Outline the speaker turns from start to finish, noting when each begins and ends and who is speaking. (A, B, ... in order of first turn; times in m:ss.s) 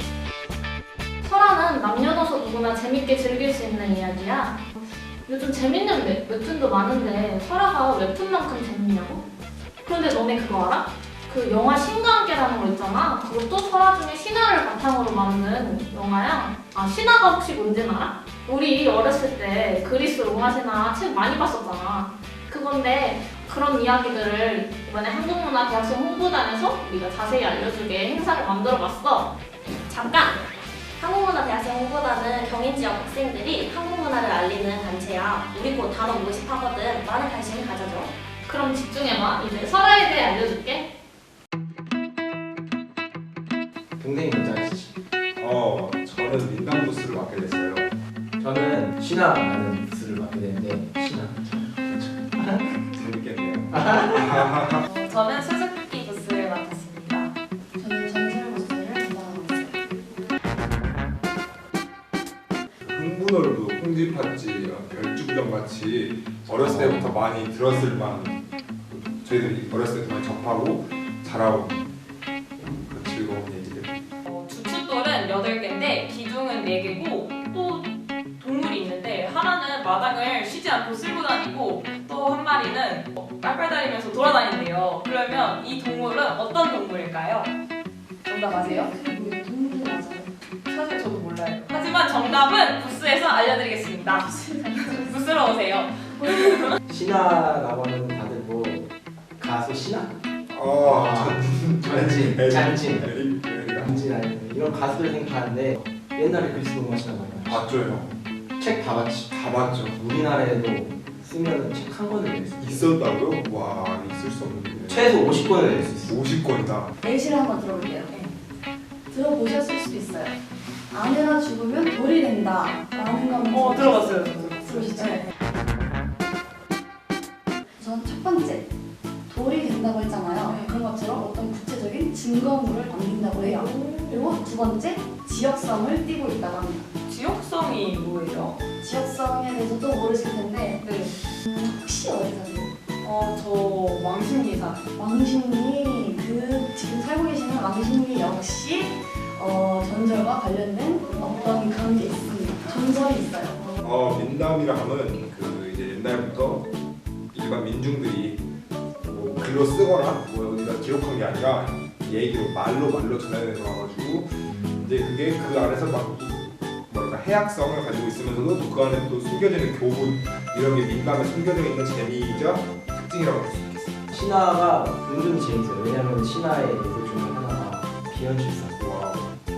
0:01.2-0:04.6 A
0:05.3-0:09.2 A
0:09.8-0:29.3 A
0:29.9-0:30.4 B
0:31.0-0:38.1 B
0:38.5-0:40.9 A
0:44.0-0:44.9 C
0:45.4-0:47.9 D
0:48.4-0:52.9 C
0:52.9-0:54.8 D
0:54.8-0:57.3 E
0:57.8-0:59.8 F
1:02.8-1:11.8 D
1:06.6-1:07.1 C
1:12.6-1:14.0 D
1:14.2-1:27.5 E
1:28.2-1:28.9 E
1:28.5-1:30.3 F
1:30.7-1:36.8 E
1:34.2-1:35.1 F
1:36.9-1:40.2 C
1:40.5-1:44.0 D
1:40.8-1:43.2 C
1:43.8-1:47.7 C
1:47.4-1:48.1 D
1:48.6-1:52.9 C
1:49.4-1:50.0 D
1:52.6-1:55.2 D
1:54.9-1:56.2 C
1:56.0-1:56.9 D
1:57.0-1:58.1 F
1:59.1-2:00.4 F
2:00.9-2:05.3 F
2:03.5-2:05.3 E
2:07.8-2:08.7 F
2:09.3-2:16.9 F
2:10.5-2:10.8 E
2:13.4-2:14.4 E
2:17.1-2:18.6 E
2:18.8-2:20.9 F
2:20.8-2:21.1 E
2:21.4-2:22.7 F
2:23.0-2:24.8 E
2:25.0-2:33.6 F
2:31.2-2:31.7 E
2:33.8-2:36.7 D
2:37.3-2:38.4 D
2:39.0-2:54.0 D
2:44.5-2:44.8 C
2:54.1-2:58.8 C
2:58.8-2:59.3 D